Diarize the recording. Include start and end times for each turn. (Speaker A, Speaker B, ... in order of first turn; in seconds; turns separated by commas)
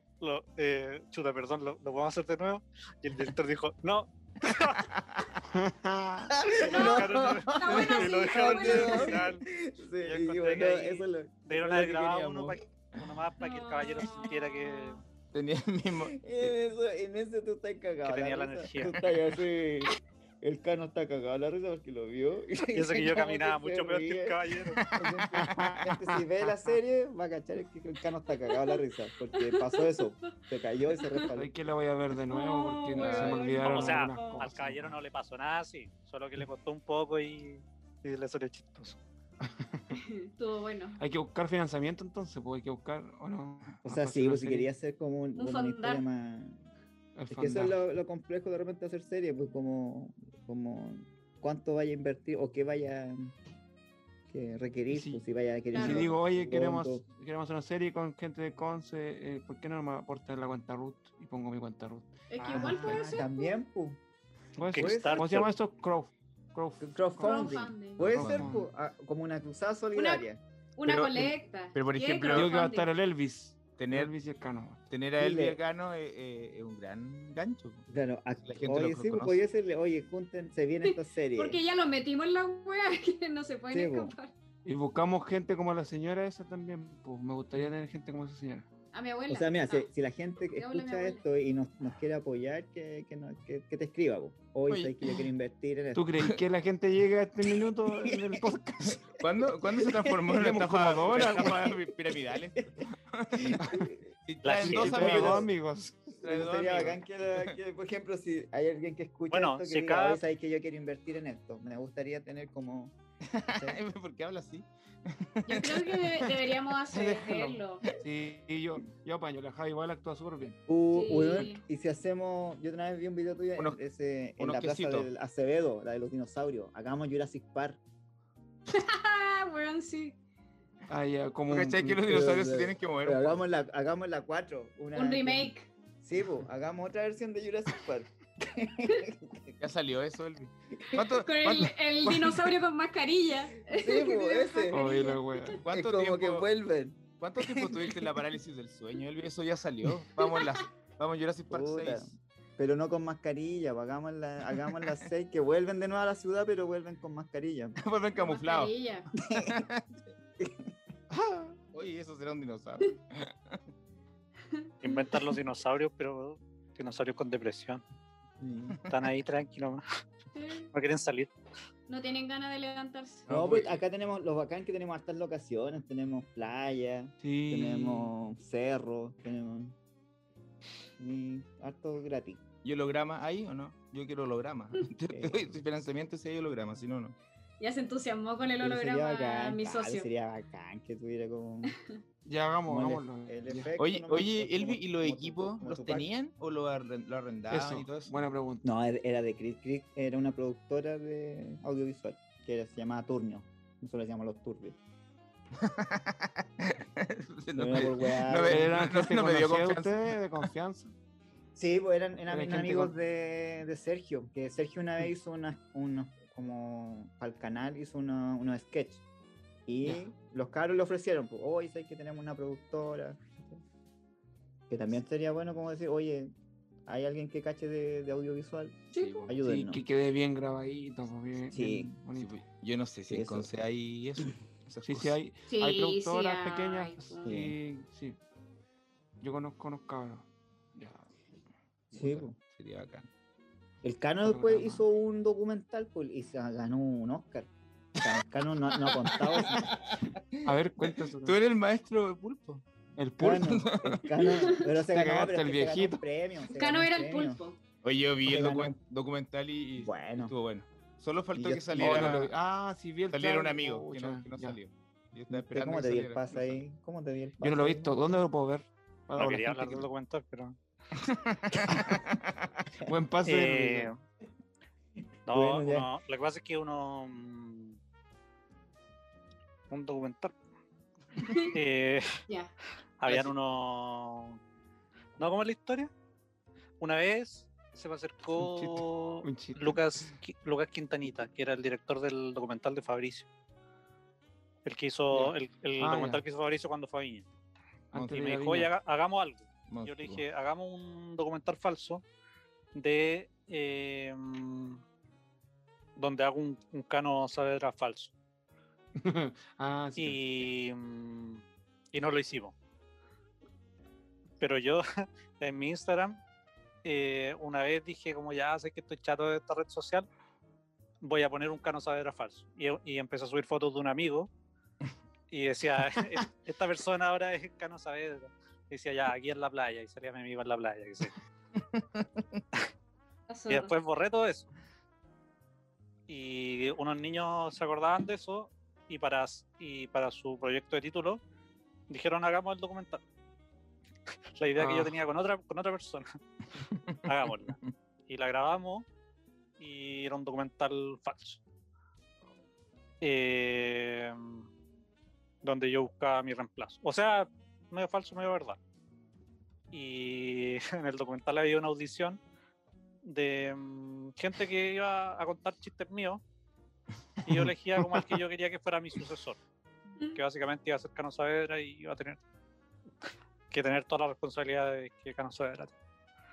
Speaker A: 0.2-4.9, Speaker B: 4.8-5.4, Speaker C: 5.5-6.4, Speaker D: 6.3-12.3, Speaker A: 6.6-9.4, Speaker E: 6.6-9.2, Speaker A: 10.0-15.0, Speaker B: 12.2-12.6, Speaker E: 13.4-15.0, Speaker B: 15.3-16.5, Speaker D: 16.1-31.5, Speaker A: 18.1-19.0, Speaker A: 22.7-24.8, Speaker B: 24.8-25.9, Speaker C: 25.5-25.9, Speaker E: 29.4-30.1, Speaker E: 31.0-31.3, Speaker C: 31.3-35.0, Speaker E: 32.2-34.5, Speaker B: 33.0-33.4, Speaker A: 33.6-39.0, Speaker C: 39.4-40.0, Speaker E: 39.9-41.0, Speaker C: 41.0-44.7, Speaker D: 43.8-46.6, Speaker E: 45.4-46.0, Speaker C: 47.1-47.8, Speaker D: 47.3-53.3, Speaker D: 54.3-57.0, Speaker C: 54.9-55.2, Speaker E: 55.7-56.1, Speaker C: 55.7-63.1, Speaker E: 62.3-63.6, Speaker D: 62.5-64.0, Speaker C: 64.6-68.7, Speaker A: 64.7-65.5, Speaker D: 64.7-65.4, Speaker D: 66.8-70.4, Speaker E: 67.2-68.1, Speaker B: 68.1-68.5, Speaker E: 70.0-70.2, Speaker E: 70.8-72.9, Speaker B: 70.8-72.5, Speaker C: 72.3-74.9, Speaker B: 73.8-74.1, Speaker B: 74.9-77.9, Speaker D: 75.2-75.6, Speaker D: 77.9-81.6, Speaker B: 78.4-79.4, Speaker E: 80.9-84.3, Speaker D: 83.7-84.1, Speaker C: 84.7-88.7, Speaker E: 88.9-89.9, Speaker D: 89.3-96.1, Speaker E: 90.5-91.2, Speaker B: 94.7-95.2, Speaker C: 95.9-99.1, Speaker D: 98.0-98.4, Speaker B: 98.8-103.7, Speaker C: 100.2-101.7, Speaker D: 103.3-104.1, Speaker C: 103.6-103.9, Speaker B: 104.2-105.5, Speaker A: 104.4-105.0, Speaker C: 104.6-106.2, Speaker D: 104.8-105.5, Speaker B: 106.2-107.5, Speaker D: 106.2-112.9, Speaker A: 109.3-110.2, Speaker B: 113.2-116.3, Speaker E: 115.5-117.9, Speaker C: 116.9-120.6, Speaker D: 120.7-127.8, Speaker E: 120.9-121.6, Speaker B: 124.4-125.1, Speaker E: 128.7-130.2, Speaker C: 130.9-132.3, Speaker B: 131.5-133.4, Speaker D: 132.1-139.5, Speaker E: 134.9-135.7, Speaker B: 139.6-142.5, Speaker E: 141.0-145.6, Speaker D: 143.6-144.8, Speaker C: 144.7-145.6, Speaker B: 145.6-146.5, Speaker D: 145.7-147.8, Speaker B: 147.2-152.2, Speaker D: 151.5-157.8, Speaker B: 157.8-158.7, Speaker E: 158.2-159.1, Speaker D: 159.2-159.7, Speaker B: 159.3-160.0, Speaker D: 160.4-160.7, Speaker B: 161.2-163.6, Speaker E: 164.5-165.4, Speaker A: 164.8-167.8, Speaker D: 168.4-168.8, Speaker A: 168.9-169.8, Speaker E: 170.3-170.7, Speaker A: 170.7-171.3, Speaker E: 171.9-173.3, Speaker B: 173.3-173.8, Speaker D: 173.3-179.8, Speaker C: 177.2-178.1, Speaker D: 181.0-182.4, Speaker B: 182.6-187.2, Speaker D: 185.1-185.5, Speaker E: 187.6-190.1, Speaker D: 188.6-191.8, Speaker C: 192.2-193.8, Speaker D: 192.7-196.1, Speaker B: 193.8-198.2, Speaker C: 197.5-198.7, Speaker D: 198.6-204.8, Speaker B: 205.6-210.5, Speaker D: 207.6-208.7, Speaker C: 208.4-210.9, Speaker D: 211.6-219.0, Speaker C: 212.3-212.9, Speaker D: 219.7-223.6, Speaker C: 219.8-220.1, Speaker D: 224.7-226.3, Speaker D: 226.9-229.8, Speaker E: 228.9-229.4, Speaker B: 228.9-229.4, Speaker C: 229.4-232.4, Speaker D: 231.5-231.9, Speaker B: 232.1-235.2, Speaker D: 233.1-233.5, Speaker C: 234.8-238.2, Speaker E: 235.5-237.3, Speaker D: 237.2-237.6, Speaker C: 239.2-241.1, Speaker B: 241.9-243.1, Speaker D: 241.9-242.4, Speaker D: 243.8-249.8, Speaker C: 244.2-244.8, Speaker B: 248.7-252.7, Speaker C: 250.4-251.4, Speaker C: 253.0-253.7, Speaker D: 253.2-257.4, Speaker B: 253.3-254.1, Speaker E: 254.2-254.6, Speaker C: 254.8-256.0, Speaker E: 256.5-257.6, Speaker B: 257.8-262.3, Speaker D: 258.2-258.8, Speaker D: 259.8-260.3, Speaker D: 261.4-262.2, Speaker C: 261.8-264.6, Speaker B: 263.1-266.6, Speaker D: 265.3-268.0, Speaker C: 267.4-269.9, Speaker A: 269.2-270.6, Speaker B: 271.2-272.5, Speaker C: 271.6-272.0, Speaker C: 272.9-273.9, Speaker A: 273.2-273.9, Speaker D: 275.3-275.9, Speaker A: 275.3-277.8, Speaker A: 279.7-280.3, Speaker E: 281.2-281.6, Speaker A: 281.4-282.2, Speaker E: 282.3-282.5, Speaker A: 283.0-284.4, Speaker A: 285.2-285.9, Speaker A: 286.8-293.3, Speaker C: 288.4-289.8, Speaker A: 294.6-297.3, Speaker C: 295.1-296.2, Speaker C: 297.9-298.7, Speaker B: 297.9-298.2, Speaker A: 298.1-302.0, Speaker B: 299.7-300.2, Speaker A: 302.7-304.8, Speaker A: 306.0-308.1, Speaker C: 309.0-310.5, Speaker A: 310.0-312.5, Speaker A: 314.4-316.2, Speaker A: 316.8-320.1, Speaker A: 321.0-324.3, Speaker A: 325.3-331.1, Speaker B: 331.6-332.4, Speaker E: 333.3-333.7, Speaker A: 333.5-334.5, Speaker A: 336.1-341.2, Speaker A: 341.9-343.0, Speaker A: 344.4-346.1, Speaker C: 344.6-345.0, Speaker A: 347.0-348.9, Speaker A: 349.6-351.4, Speaker A: 353.0-354.5, Speaker A: 355.4-358.6, Speaker A: 359.7-362.2, Speaker A: 363.0-366.2, Speaker A: 367.2-369.4, Speaker A: 370.1-372.2, Speaker A: 373.5-375.7